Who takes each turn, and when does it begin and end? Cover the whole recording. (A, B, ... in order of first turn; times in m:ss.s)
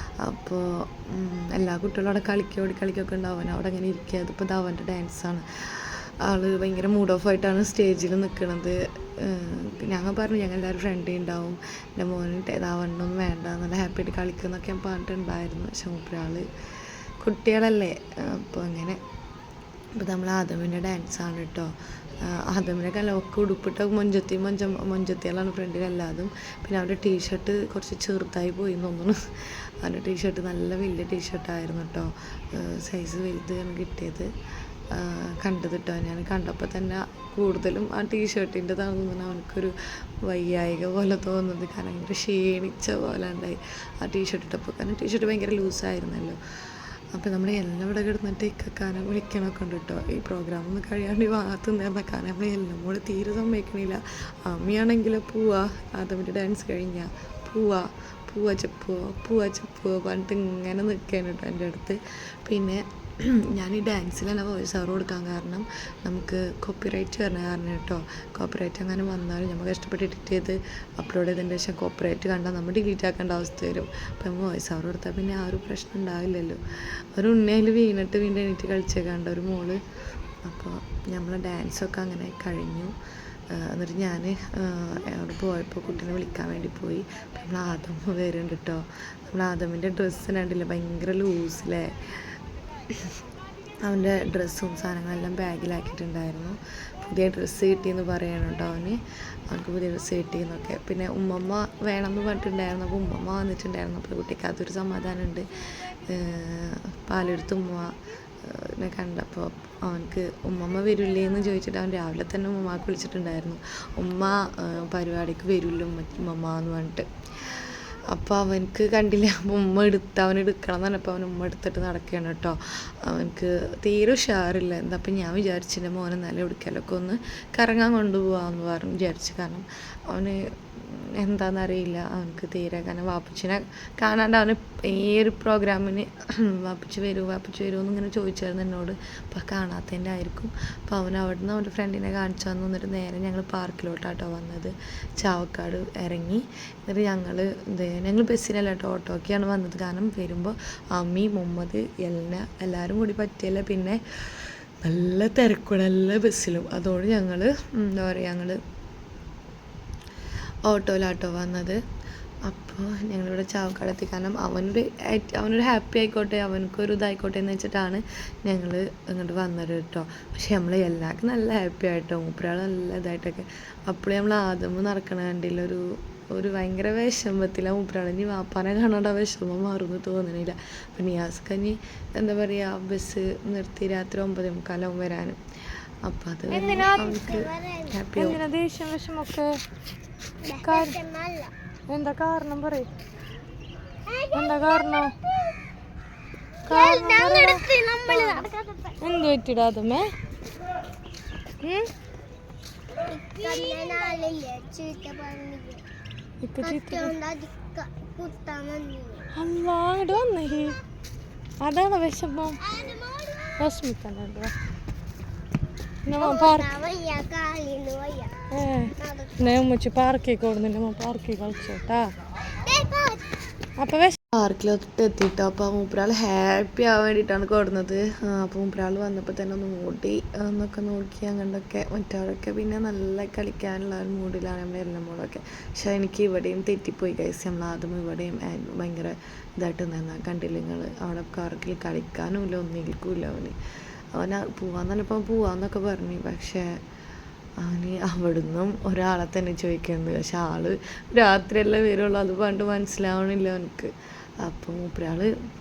0:00.2-0:16.5 A
0:17.2-0:19.0 A
0:20.0-0:34.3 A
0:34.9-1:16.6 A
1:17.1-1:19.8 A
1:20.4-1:23.0 A
1:23.5-1:32.3 A
1:33.8-2:38.6 A
2:40.6-2:41.8 A
2:42.4-3:05.4 A
3:06.0-3:08.4 A
3:06.5-3:07.0 B
3:06.7-3:08.0 C
3:08.2-3:09.5 B
3:10.4-3:11.5 C
3:10.6-3:11.0 B
3:11.9-3:12.9 B
3:14.1-3:15.3 C
3:14.3-3:15.1 B
3:16.7-3:18.5 B
3:16.7-3:18.9 C
3:19.0-3:20.1 B
3:23.1-3:25.8 C
3:26.4-3:27.2 B
3:26.6-3:29.3 C
3:29.3-3:30.8 B
3:31.6-3:32.6 B
3:32.7-3:33.5 C
3:33.6-3:34.5 B
3:36.1-3:36.7 B
3:36.2-3:38.4 C
3:38.5-3:42.1 B
3:39.0-3:39.6 C
3:42.6-3:43.4 C
3:43.8-3:44.2 B
3:44.3-4:03.6 A
4:04.1-4:06.7 A
4:07.6-4:15.3 A